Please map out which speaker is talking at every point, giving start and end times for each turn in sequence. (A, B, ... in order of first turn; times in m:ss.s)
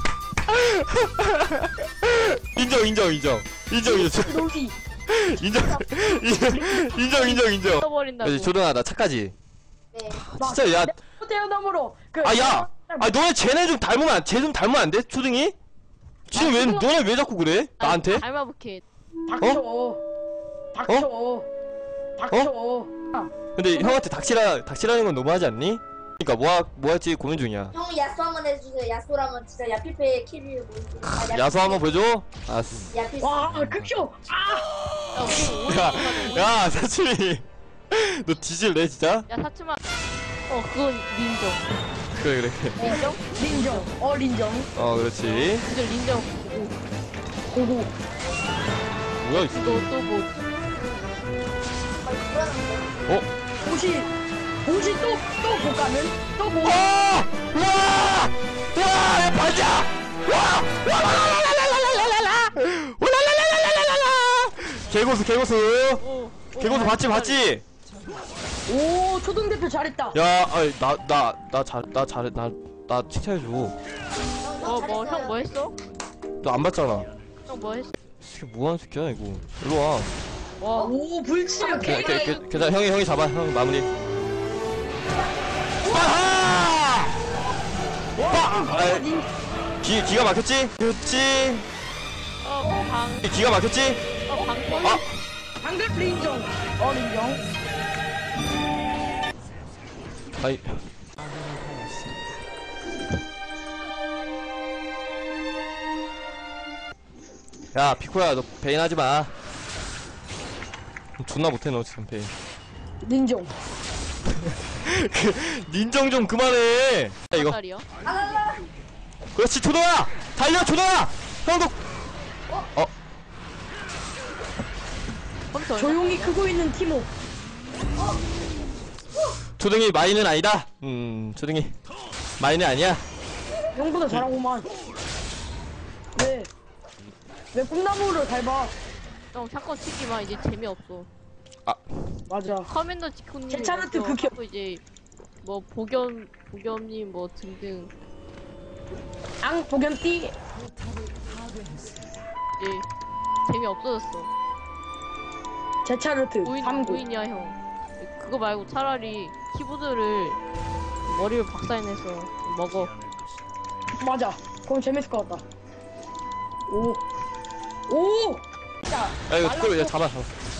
0:00.4-0:04.5 A
0:03.8-0:04.8 B
0:05.1-0:09.4 A
0:07.6-0:08.5 C
0:09.9-0:10.2 D
0:10.1-0:11.0 A
0:10.4-0:13.1 B
0:12.2-0:15.6 A
0:16.3-0:18.2 A
0:16.3-0:16.9 B
0:17.8-0:18.8 C
0:19.3-0:20.0 B
0:20.7-0:21.5 B
0:22.2-0:24.0 B
0:23.6-0:27.7 A
0:27.7-0:31.8 D
0:31.0-0:33.0 A
0:32.9-0:33.5 D
0:33.2-0:34.7 B
0:35.1-0:36.6 C
0:35.2-0:39.3 A
0:39.3-0:39.8 C
0:40.5-0:41.6 C
0:42.1-0:43.0 A
0:42.8-0:43.9 C
0:43.4-0:44.7 B
0:44.8-0:45.7 A
0:45.1-0:46.8 C
0:47.5-0:47.9 B
0:49.2-0:49.9 A
0:49.5-0:50.3 C
0:52.0-0:52.9 D
0:53.6-0:54.1 B
0:54.7-0:56.9 B
0:56.6-1:06.0 A
1:06.0-1:07.4 C
1:06.6-1:07.6 A
1:08.7-1:10.2 B
1:10.1-1:13.8 A
1:14.4-1:15.4 D
1:14.6-1:15.8 C
1:16.4-1:17.1 A
1:17.5-1:17.9 C
1:18.2-1:20.1 A
1:20.6-1:20.9 C
1:20.8-1:22.4 B
1:21.6-1:22.4 D
1:21.8-1:23.9 A
1:25.8-1:26.1 D
1:25.8-1:27.2 A
1:28.2-1:29.3 B
1:28.2-1:29.0 A
1:29.8-1:31.7 A
1:32.4-1:33.3 C
1:33.2-1:34.0 A
1:34.3-1:35.0 C
1:34.3-1:35.0 B
1:35.6-1:37.4 B
1:40.4-1:40.8 A
1:47.7-1:49.3 A
1:51.2-1:52.3 A
1:53.0-1:53.5 B
1:54.4-1:57.6 A
1:57.3-1:57.9 C
1:58.0-1:58.7 D
1:59.4-2:01.8 A
2:05.5-2:06.4 C
2:05.8-2:07.1 B
2:09.6-2:11.8 A
2:12.4-2:13.0 A
2:13.7-2:14.7 B
2:16.2-2:16.5 B
2:17.5-2:18.7 B
2:19.3-2:21.1 C
2:22.3-2:22.7 B
2:22.7-2:24.8 C
2:23.5-2:24.4 B
2:25.4-2:27.9 C
2:29.4-2:30.4 B
2:32.6-2:32.8 C
2:33.5-2:34.3 C
2:35.8-2:37.0 B
2:36.4-2:40.4 C
2:41.1-2:42.9 C
2:44.0-2:45.4 B
2:46.7-2:47.0 B
2:47.9-2:50.0 B
2:49.3-2:50.4 A